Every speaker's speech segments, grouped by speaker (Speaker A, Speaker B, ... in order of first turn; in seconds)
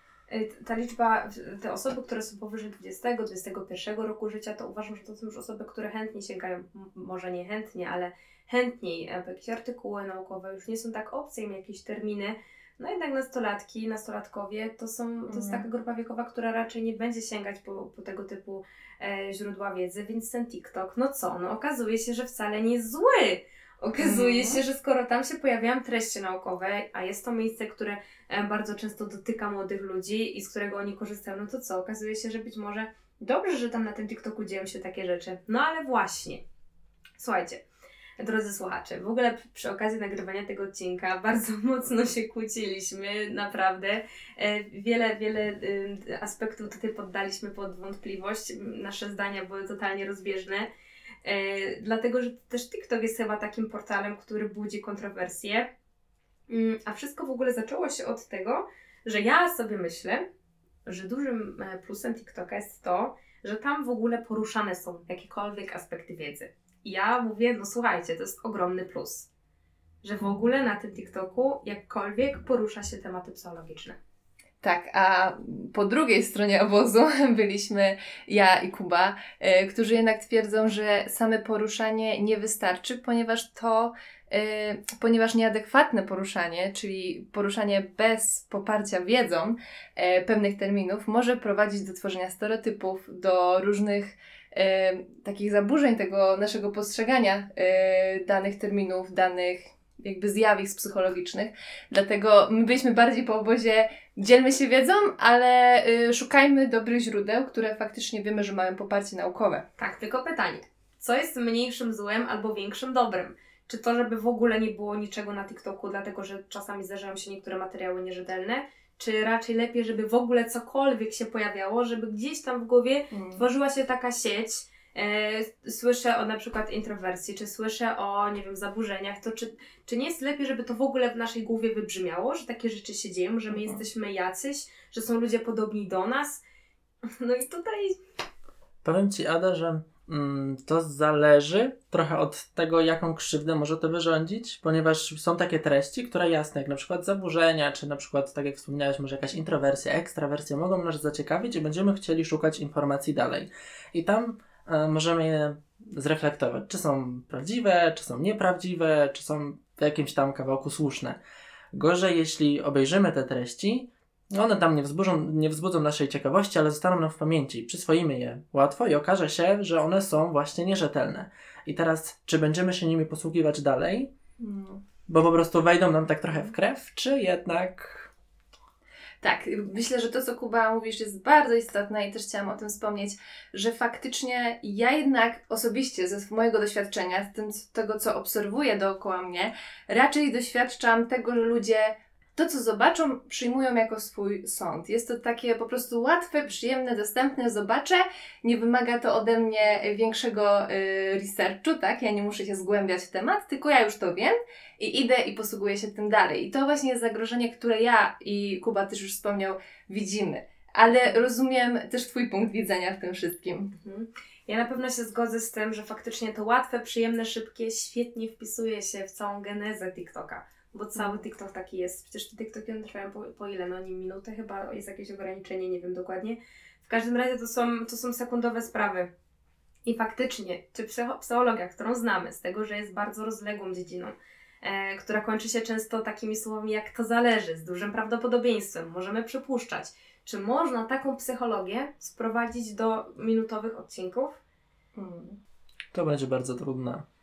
Speaker A: 0.3-36.4, 37.2-37.6, 38.2-50.7, 51.2-55.7, 56.5-60.3, 60.8-69.3, 70.0-74.0, 109.8-136.4, 137.1-138.0, 213.7-229.1, 229.8-244.4
Speaker B: 15.3-15.6, 24.0-24.6, 74.6-109.6, 123.1-123.4, 133.5-133.8, 174.4-174.8, 179.2-213.7, 220.9-221.2, 244.9-245.4
Speaker C: 138.8-161.2, 161.7-174.1, 175.1-178.1, 245.9-247.0